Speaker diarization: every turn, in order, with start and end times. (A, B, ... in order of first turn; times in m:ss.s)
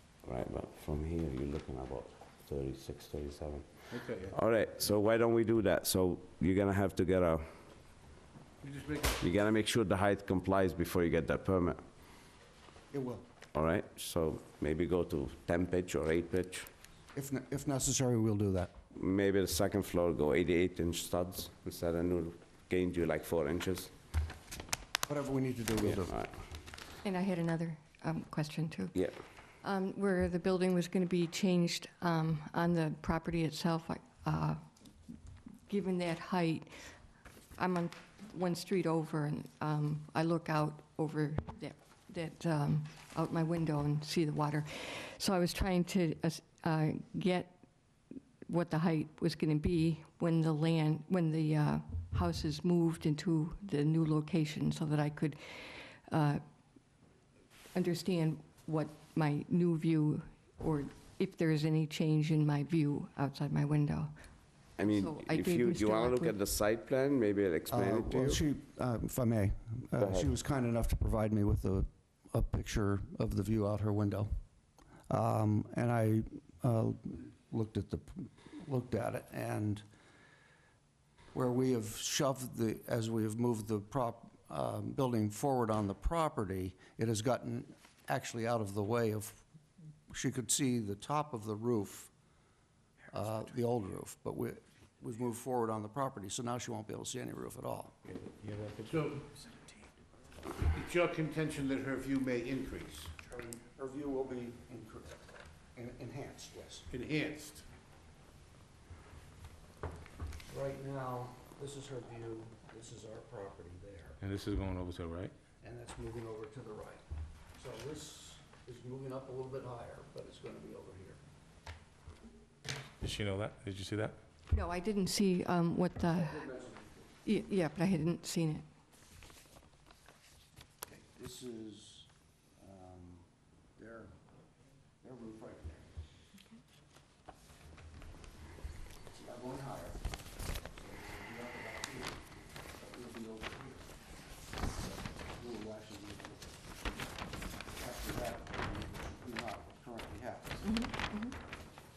0:00.2-0:03.7 A
0:03.9-0:04.4 B
0:04.3-0:07.4 A
0:08.6-0:09.4 B
0:09.2-0:11.8 A
0:12.9-0:13.2 C
0:13.5-0:16.7 A
0:17.2-0:18.7 C
0:18.9-0:23.9 A
0:25.1-0:26.1 C
0:25.8-0:26.3 A
0:27.0-0:29.0 D
0:29.6-0:34.6 D
0:35.7-0:36.8 D
0:37.6-0:47.6 D
0:48.5-0:56.4 D
0:57.7-1:04.1 D
1:04.8-1:06.4 D
1:04.8-1:08.4 A
1:07.7-1:14.3 C
1:10.0-1:10.3 A
1:15.1-1:19.8 C
1:21.3-1:29.5 C
1:30.1-1:32.1 C
1:33.1-1:37.9 C
1:38.1-1:39.0 E
1:38.8-1:39.2 B
1:40.4-1:43.1 B
1:43.2-1:45.2 C
1:45.8-1:46.9 C
1:46.9-1:47.7 B
1:50.5-1:54.2 C
1:54.2-1:55.3 E
1:55.6-1:57.0 C
1:57.6-2:01.2 C
2:03.0-2:04.2 E
2:04.5-2:06.5 D
2:06.2-2:07.0 C
2:07.2-2:08.7 D
2:10.9-2:13.3 C
2:13.8-2:14.2 C
2:15.0-2:15.9 C
2:19.1-2:20.0 C
2:20.8-2:24.0 C
2:24.8-2:26.6 C
2:27.8-2:30.7 C
2:30.6-2:31.4 D